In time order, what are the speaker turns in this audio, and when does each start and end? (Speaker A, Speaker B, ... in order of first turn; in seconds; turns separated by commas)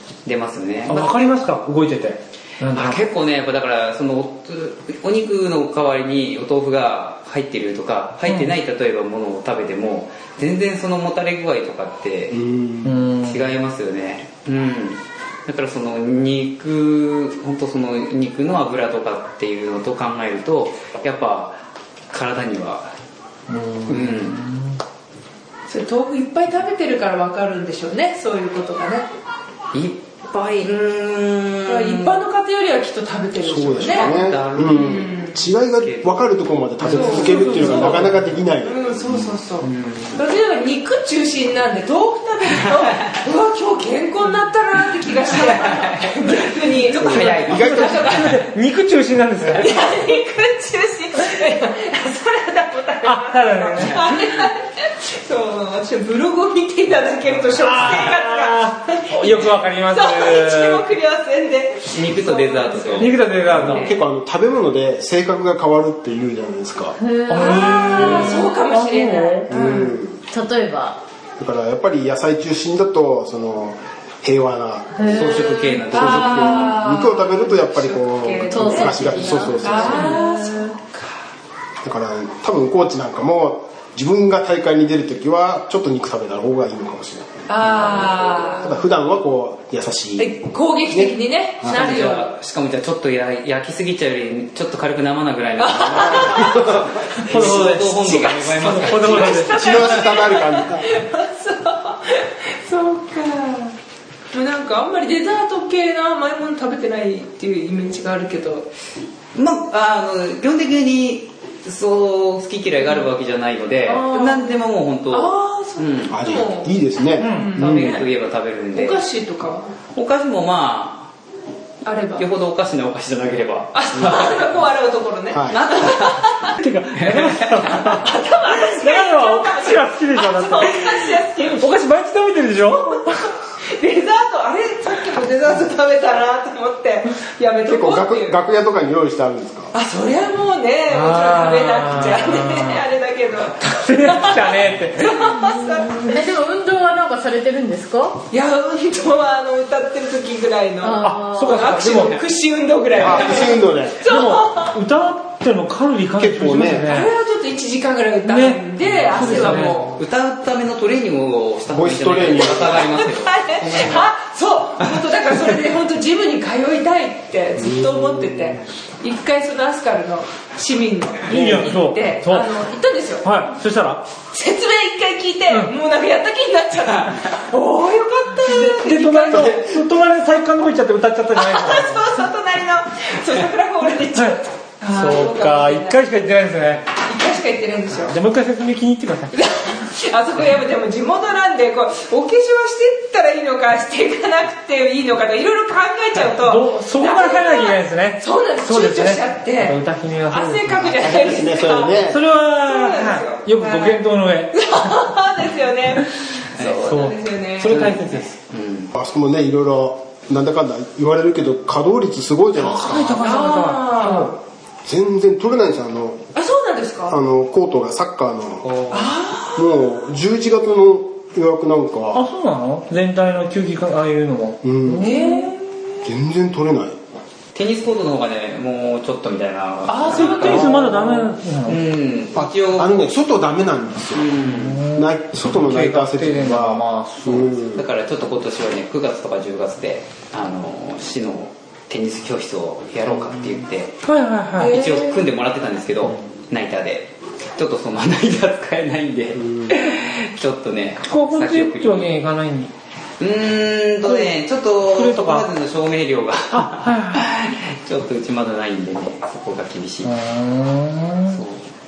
Speaker A: 0.2-1.3, Speaker B: 0.9-3.0, Speaker A: 2.7-12.4, Speaker B: 8.3-8.5, Speaker C: 12.3-13.0, Speaker B: 12.8-13.4, Speaker A: 13.2-21.6, Speaker A: 22.1-22.9, Speaker B: 23.5-24.8, Speaker A: 23.9-24.4, Speaker D: 25.7-29.1, Speaker A: 29.7-32.2, Speaker D: 31.6-35.4, Speaker C: 33.4-39.3, Speaker A: 33.8-35.1, Speaker A: 35.8-36.2, Speaker B: 36.8-38.4, Speaker D: 36.8-38.0, Speaker D: 38.6-48.4, Speaker A: 39.6-40.2, Speaker A: 45.2-47.9, Speaker C: 47.0-48.2, Speaker B: 47.5-49.7, Speaker D: 49.5-63.8, Speaker B: 53.0-54.0, Speaker A: 53.8-54.1, Speaker B: 57.5-60.9, Speaker A: 61.9-64.0, Speaker B: 63.0-63.9, Speaker C: 63.6-67.0, Speaker E: 67.0-68.3, Speaker B: 67.3-69.5, Speaker D: 67.3-70.0, Speaker C: 69.5-70.2, Speaker E: 70.3-71.0, Speaker C: 71.4-80.2, Speaker E: 74.9-75.8, Speaker A: 75.1-76.7, Speaker D: 75.6-81.2, Speaker E: 78.5-80.6, Speaker C: 81.8-90.4, Speaker D: 87.5-88.7, Speaker D: 90.2-92.3, Speaker C: 90.9-91.8, Speaker A: 91.6-99.4, Speaker D: 95.6-96.7, Speaker C: 95.8-96.9, Speaker B: 97.3-99.7, Speaker D: 98.0-103.7, Speaker C: 99.5-100.9, Speaker D: 104.3-108.7, Speaker A: 109.3-116.2, Speaker D: 113.8-114.5, Speaker D: 115.1-118.0, Speaker C: 116.1-118.0, Speaker B: 117.2-117.5, Speaker A: 117.5-119.0, Speaker D: 118.7-119.7, Speaker A: 119.9-121.1, Speaker D: 121.8-122.2, Speaker A: 122.1-124.4, Speaker D: 123.7-126.5, Speaker C: 125.3-125.6, Speaker A: 125.5-127.8, Speaker B: 126.5-133.2, Speaker D: 127.7-131.7, Speaker D: 133.8-138.3, Speaker C: 137.7-139.7, Speaker D: 139.7-146.2, Speaker B: 140.9-142.8, Speaker B: 143.6-145.4, Speaker E: 145.8-148.2, Speaker D: 148.3-154.7, Speaker E: 150.8-151.6, Speaker B: 151.0-152.2, Speaker C: 153.0-154.1, Speaker B: 154.1-157.1, Speaker C: 156.2-156.8, Speaker D: 156.8-159.9, Speaker B: 158.3-159.8, Speaker A: 159.3-163.7, Speaker C: 161.7-162.9, Speaker D: 162.7-173.4, Speaker C: 163.6-164.0, Speaker C: 167.6-168.5, Speaker B: 171.2-172.5, Speaker B: 173.2-174.0, Speaker D: 174.3-179.8, Speaker B: 178.4-182.1, Speaker D: 181.3-186.0, Speaker B: 184.2-186.9, Speaker D: 187.0-188.2, Speaker B: 188.1-189.3, Speaker D: 189.3-207.8, Speaker B: 196.2-201.1, Speaker C: 200.9-202.2, Speaker B: 202.0-204.6, Speaker A: 206.5-206.9, Speaker B: 206.8-208.3, Speaker A: 207.6-208.9, Speaker C: 208.9-213.2, Speaker B: 212.5-214.4, Speaker D: 213.2-214.3, Speaker C: 214.8-216.2, Speaker D: 216.3-217.2, Speaker C: 217.1-218.7, Speaker A: 218.6-219.2, Speaker D: 218.9-219.7, Speaker C: 219.5-222.2, Speaker B: 222.1-225.5, Speaker C: 224.6-225.1, Speaker D: 225.0-225.8, Speaker C: 226.0-226.9, Speaker A: 227.5-233.1, Speaker D: 229.9-230.8, Speaker B: 230.0-231.8, Speaker C: 232.4-234.3, Speaker A: 234.1-234.8, Speaker B: 234.4-237.6, Speaker C: 234.9-237.8, Speaker A: 237.8-243.9, Speaker B: 244.0-244.8, Speaker A: 244.6-252.2, Speaker D: 244.6-245.0, Speaker C: 249.4-249.8, Speaker B: 251.0-252.7, Speaker A: 253.2-260.1, Speaker B: 254.0-254.3, Speaker B: 254.9-255.5, Speaker B: 256.5-257.2, Speaker B: 260.0-261.4, Speaker A: 261.3-261.7